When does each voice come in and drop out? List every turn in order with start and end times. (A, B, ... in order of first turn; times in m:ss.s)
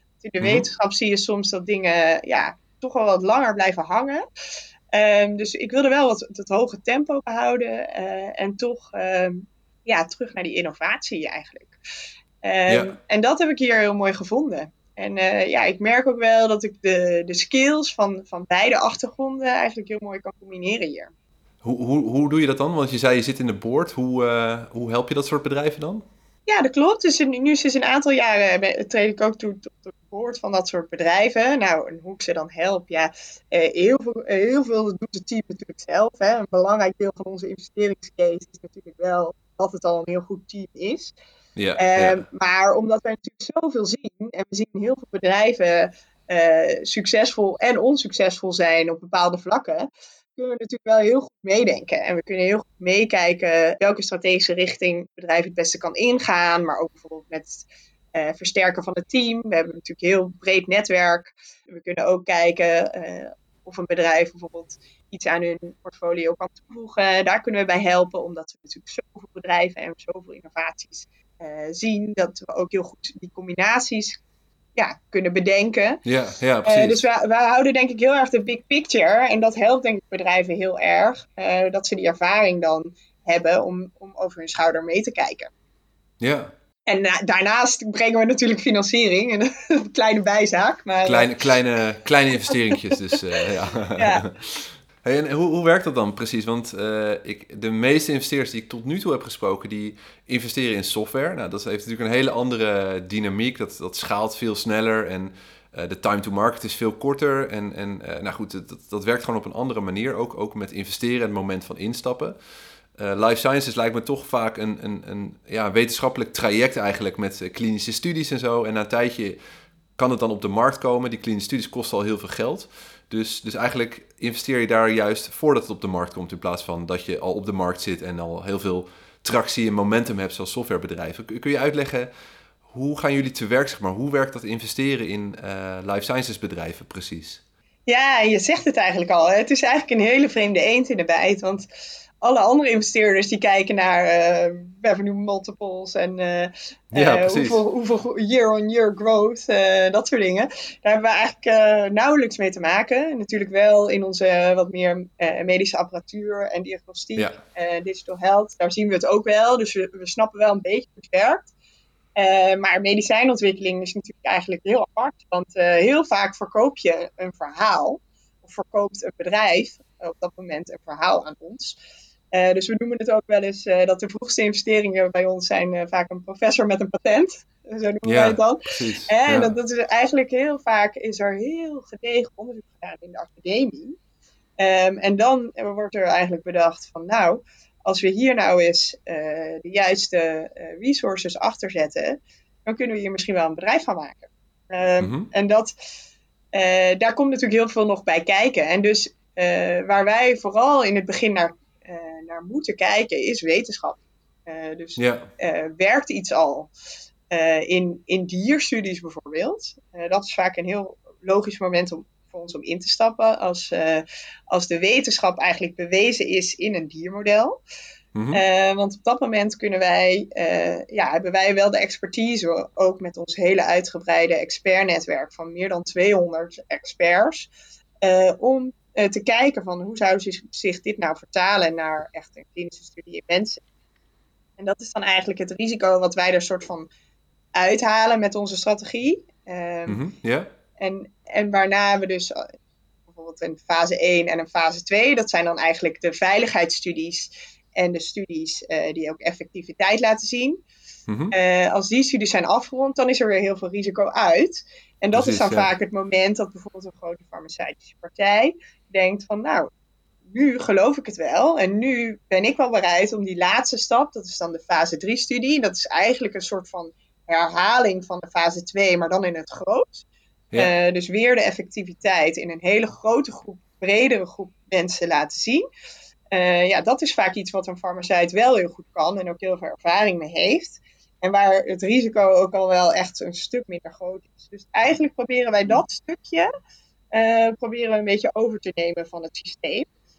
0:00.2-0:04.2 A
0:04.9-0:11.8 A
0:12.4-0:21.1 A
0:12.7-0:12.9 B
0:21.6-0:26.0 B
0:26.5-0:41.1 A
0:41.6-0:42.2 B
0:41.8-1:14.2 A
1:14.8-1:16.0 A
1:16.0-1:17.0 B
1:16.6-1:25.5 A
1:26.2-1:26.5 B
1:26.9-1:31.4 A
1:31.0-1:52.3 B
1:32.5-1:33.0 A
1:34.0-1:34.2 A
1:53.0-1:59.4 B
2:00.0-2:12.1 B
2:12.7-2:17.4 B
2:17.9-2:21.6 A
2:22.2-2:41.5 A
2:26.9-2:27.6 B
2:42.2-2:51.8 A
2:52.3-3:04.0 A
2:58.0-2:59.5 B
3:04.6-3:15.7 A
3:15.0-3:15.3 B
3:16.5-3:26.7 A
3:25.0-3:25.2 B
3:27.3-3:37.6 A
3:38.1-3:38.4 B
3:38.3-3:47.5 A
3:48.0-3:53.6 A
3:54.6-3:56.9 A
3:57.5-4:00.0 A
3:59.9-4:00.5 B
4:00.8-4:02.5 A
4:03.1-4:10.6 A
4:11.1-4:11.3 B
4:11.3-4:19.7 A
4:15.1-4:15.7 B
4:20.3-4:30.0 A
4:30.6-4:35.6 A
4:36.3-4:46.5 A
4:47.1-4:49.9 A